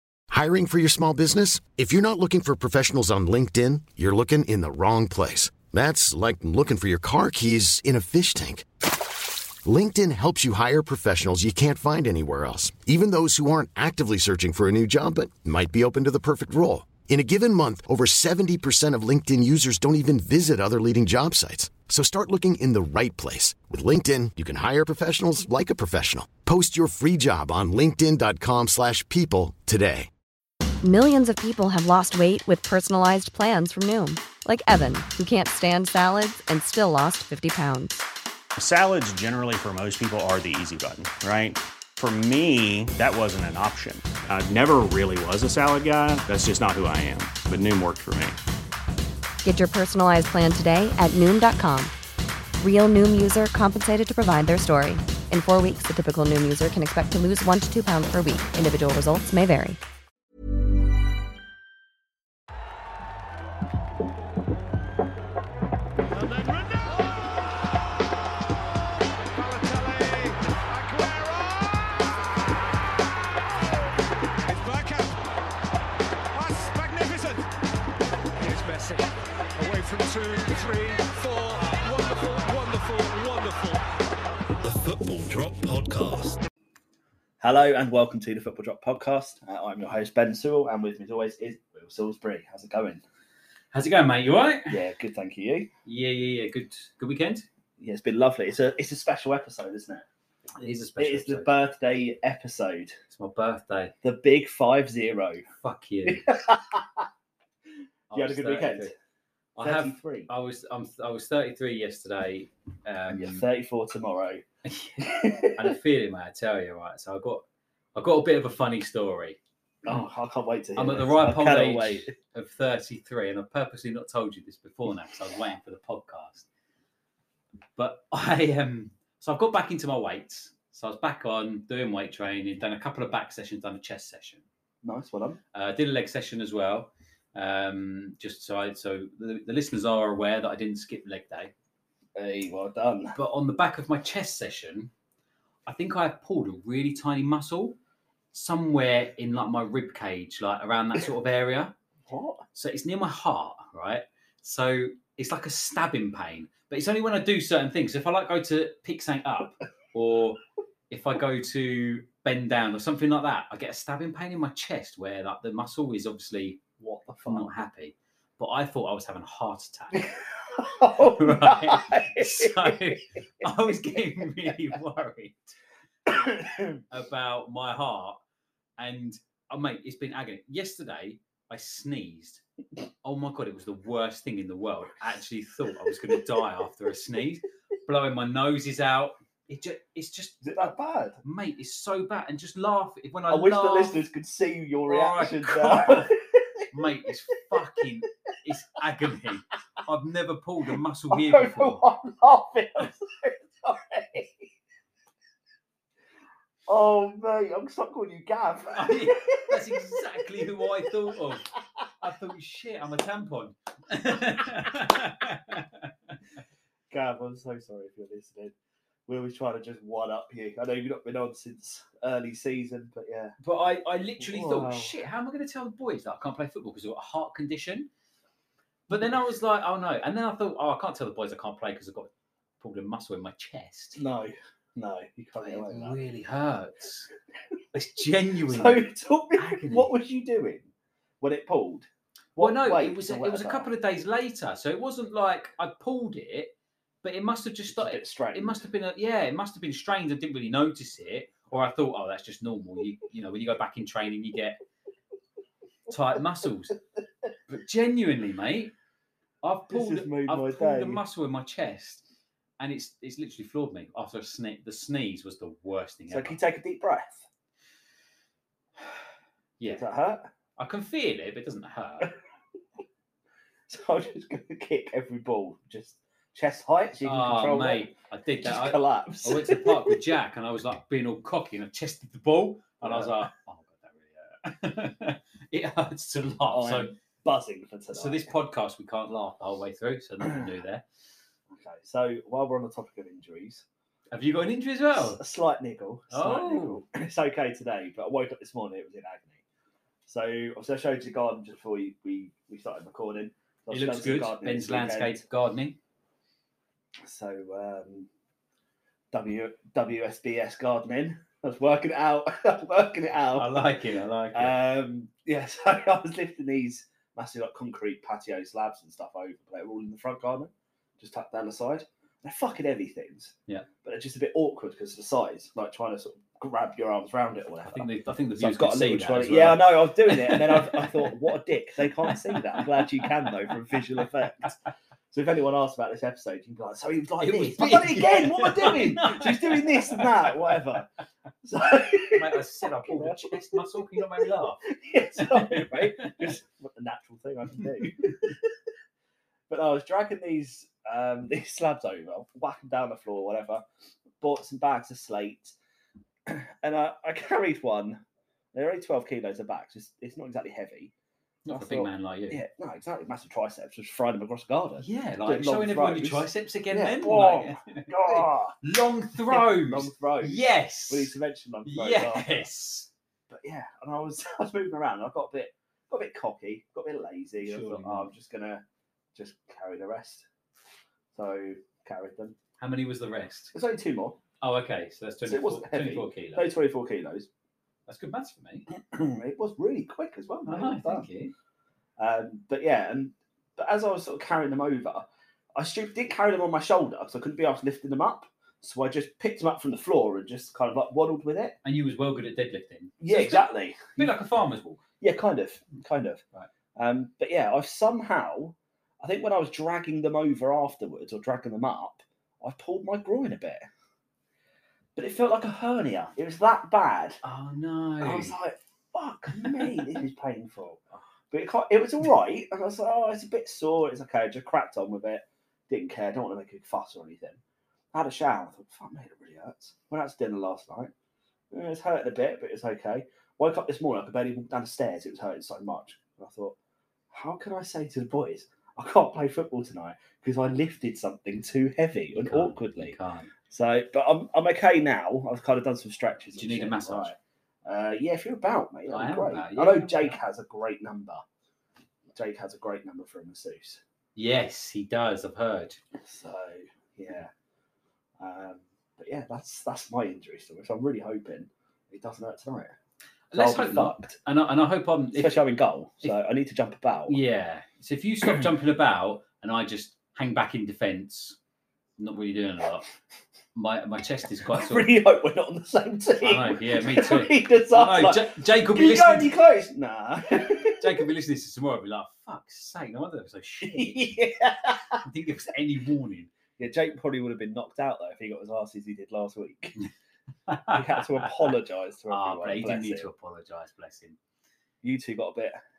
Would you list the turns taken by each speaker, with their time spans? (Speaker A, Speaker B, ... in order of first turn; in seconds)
Speaker A: 0.3-8.7, 9.6-30.1
Speaker B: 30.8-38.0, 49.4-51.9, 52.6-59.8
Speaker C: 38.6-48.4
Speaker D: 66.1-67.2, 69.3-71.9, 74.5-75.2, 76.3-77.5, 78.4-83.8
Speaker E: 84.6-86.4, 87.4-93.0, 94.7-95.7, 97.8-100.1, 101.0-103.0, 104.0-105.5, 106.0-107.0, 108.1-108.9, 109.6-110.3, 113.1-114.4, 115.0-115.6, 119.8-122.1, 134.8-135.4, 142.2-143.2, 152.1-152.4, 166.8-167.5, 169.9-172.9, 176.1-176.8, 190.4-191.2, 193.3-196.7, 201.1-204.5, 206.7-210.0, 216.9-218.5, 219.1-223.3, 224.2-224.9, 234.0-236.0, 238.5-243.7, 247.7-248.6, 259.7-261.0, 266.1-267.2, 269.7-270.2, 273.7-277.9, 278.4-280.0, 282.8-283.3, 286.5-288.3, 291.5-293.6, 294.9-299.4, 300.1-305.2, 307.0-308.1, 309.1-313.6, 314.3-327.9, 328.4-334.6, 335.1-340.9, 341.4-344.0, 344.7-348.4, 349.5-353.6, 354.2-355.6, 356.3-358.0, 358.5-360.9, 361.5-368.6, 369.3-372.5, 373.3-378.6, 379.1-380.3, 381.1-382.4, 383.5-384.2, 385.3-387.3, 388.8-391.1, 392.0-401.6, 403.0-404.1, 405.0-406.2, 406.8-413.7, 415.0-417.2, 418.0-420.8, 421.3-427.4, 427.9-430.9, 431.5-436.6, 437.1-442.9, 443.5-451.2, 452.1-453.8, 456.0-457.3, 458.2-462.8, 463.3-464.1, 465.1-467.2, 474.5-480.9, 483.6-485.0, 486.6-489.8, 490.7-493.1, 494.8-495.6
Speaker F: 93.7-94.8, 95.9-97.5, 100.6-101.5, 103.1-103.9, 105.6-106.3, 108.1-108.9, 109.6-113.4, 114.7-117.4, 118.0-119.4, 120.8-126.5, 127.8-134.4, 135.5-141.5, 143.2-144.9, 145.7-147.8, 148.3-151.7, 152.6-166.6, 167.3-170.1, 171.1-175.5, 176.9-178.2, 178.8-182.4, 183.0-190.7, 191.2-194.0, 194.9-196.1, 196.7-201.8, 208.8-211.5, 212.0-215.9, 223.4-227.9, 228.9-234.0, 235.4-237.1, 237.7-239.9, 242.4-254.6, 255.9-256.8, 257.5-258.7, 259.4-262.0, 262.6-266.4, 269.6-269.9, 270.6-272.1, 277.0-286.9, 287.9-290.8, 294.1-295.2, 296.1-296.9, 303.7-305.8, 313.4-314.6, 327.7-331.1, 332.1-333.1, 337.2-340.5, 342.1-346.3, 361.5-362.4, 364.8-371.1, 371.7-372.9, 377.4-378.1, 382.6-383.5, 384.4-386.5, 387.9-388.7, 390.5-391.3, 401.6-404.8, 417.2-418.4, 419.4-419.9, 442.2-443.3, 446.4-447.1, 448.9-450.2, 454.2-455.8, 463.3-465.4, 467.1-471.4, 472.0-472.9, 473.6-474.9, 476.2-479.3, 480.8-484.1, 485.0-486.3, 490.5-491.5, 492.1-494.2